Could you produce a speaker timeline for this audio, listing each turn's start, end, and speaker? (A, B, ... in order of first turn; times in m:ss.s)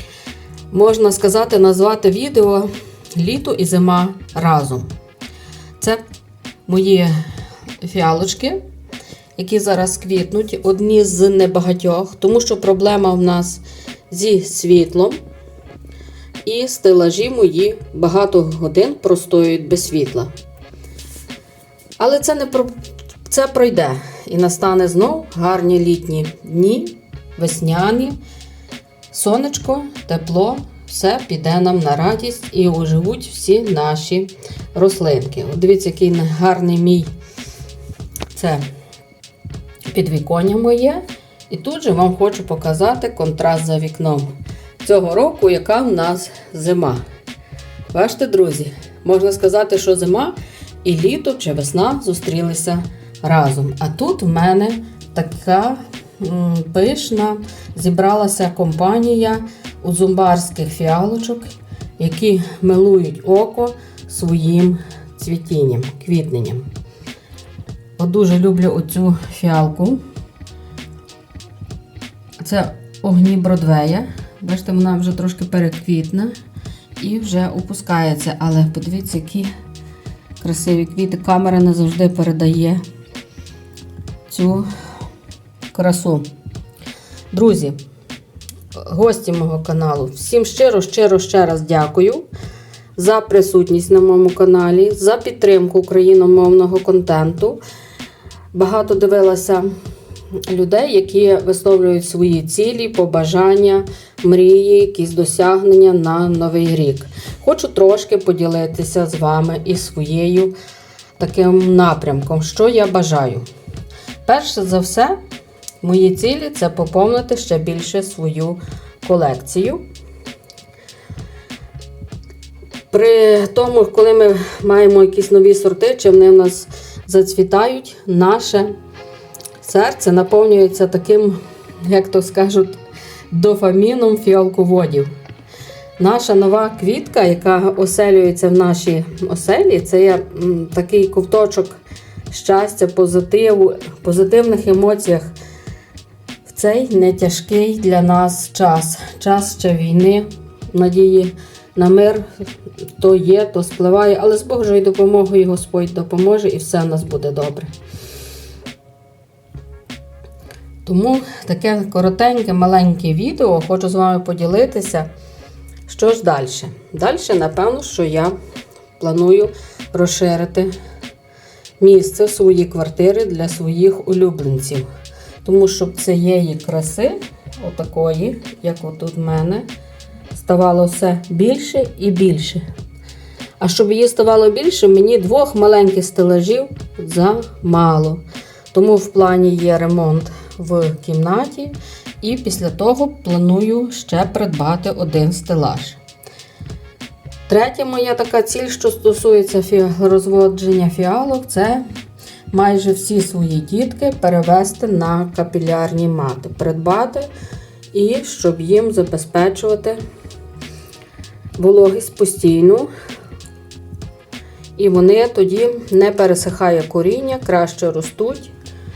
0:00.7-0:04.9 A
0:06.7-0:07.2 A
0:07.8-0:08.6 A
0:09.4-0:15.2 A
0:16.4-0:20.3 A
0:22.0-0:22.7 A
0:23.3-0:28.2 A
0:29.1-0:37.1 A
0:38.3-0:38.6 A
0:39.9-0:44.3 A
0:44.8-0:47.0 A
0:47.9-1:06.7 A
1:08.0-1:10.0 A
1:12.4-1:16.3 A
1:17.0-1:19.5 A
1:20.4-1:22.8 A
1:24.3-1:24.7 A
1:25.7-1:26.3 A
1:27.3-1:27.8 A
1:28.8-1:32.2 A
1:33.0-1:37.6 A
1:38.5-1:39.7 A
1:40.5-1:50.5 A
1:51.2-1:53.4 A
1:54.2-1:55.2 A
1:55.8-1:59.8 A
2:02.9-2:08.7 A
2:09.6-2:12.8 A
2:13.3-2:15.1 A
2:16.0-2:21.8 A
2:22.3-2:25.3 A
2:26.4-2:32.2 A
2:33.0-2:37.7 A
2:40.8-2:45.1 A
2:45.9-2:48.3 A
2:49.0-2:50.7 A
2:51.8-2:54.8 A
2:55.4-2:59.6 A
3:00.3-3:02.6 A
3:03.6-3:08.2 A
3:08.7-3:16.0 A
3:17.5-3:21.8 A
3:22.5-3:27.3 A
3:27.9-3:30.0 A
3:31.6-3:32.9 A
3:34.8-3:38.5 A